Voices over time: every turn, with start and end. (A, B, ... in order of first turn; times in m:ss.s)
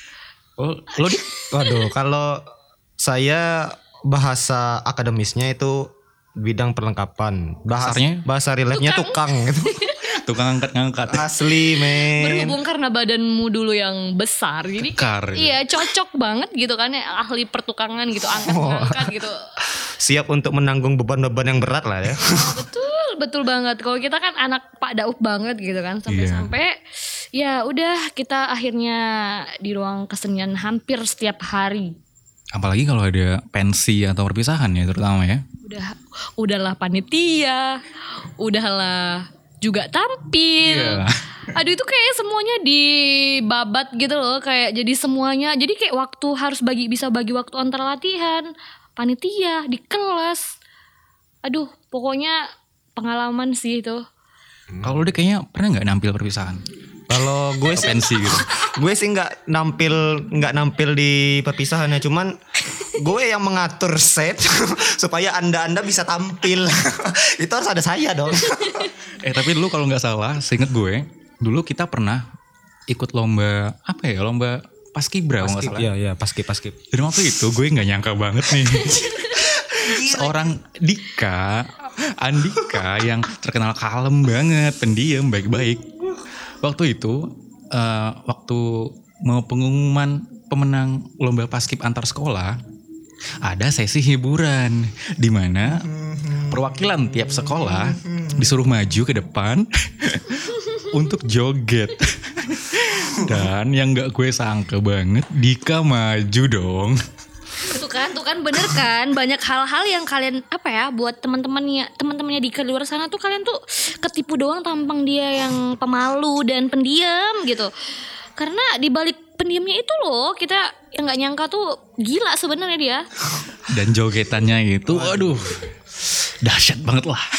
0:00.6-0:01.2 A
0:01.0-0:01.9 B
0:01.5-0:02.4 C
0:03.0-0:09.8 C
0:07.8-0:08.2 A
0:08.7-0:10.2 B
0:10.1-0:11.3 A
0:11.1-0:12.6 C
0:11.8-0:19.4 B
0:14.8-0:15.6 A
0:18.3-0:19.1 C
0:19.8-0:22.6 C
0:22.2-0:26.8 B
0:26.1-0:26.5 A
0:27.3-0:31.9 B
0:32.5-0:35.4 A
0:35.6-0:50.6 B
0:40.6-0:41.1 A
0:51.4-0:52.4 B
0:53.0-0:54.0 B
0:54.7-0:55.0 C
0:54.8-0:56.6 A
0:57.1-1:02.3 C
0:57.7-0:58.6 A
1:02.8-1:08.9 C
1:08.5-1:08.9 B
1:09.2-1:12.2 A
1:12.9-1:15.9 A
1:15.4-1:16.8 C
1:16.9-1:25.8 A
1:19.0-1:19.4 B
1:19.4-1:20.5 C
1:26.6-1:32.6 A
1:33.4-1:47.0 A
1:35.7-1:38.4 C
1:47.6-1:57.7 B
1:58.4-2:03.1 B
2:03.7-2:07.3 A
2:04.9-2:05.6 C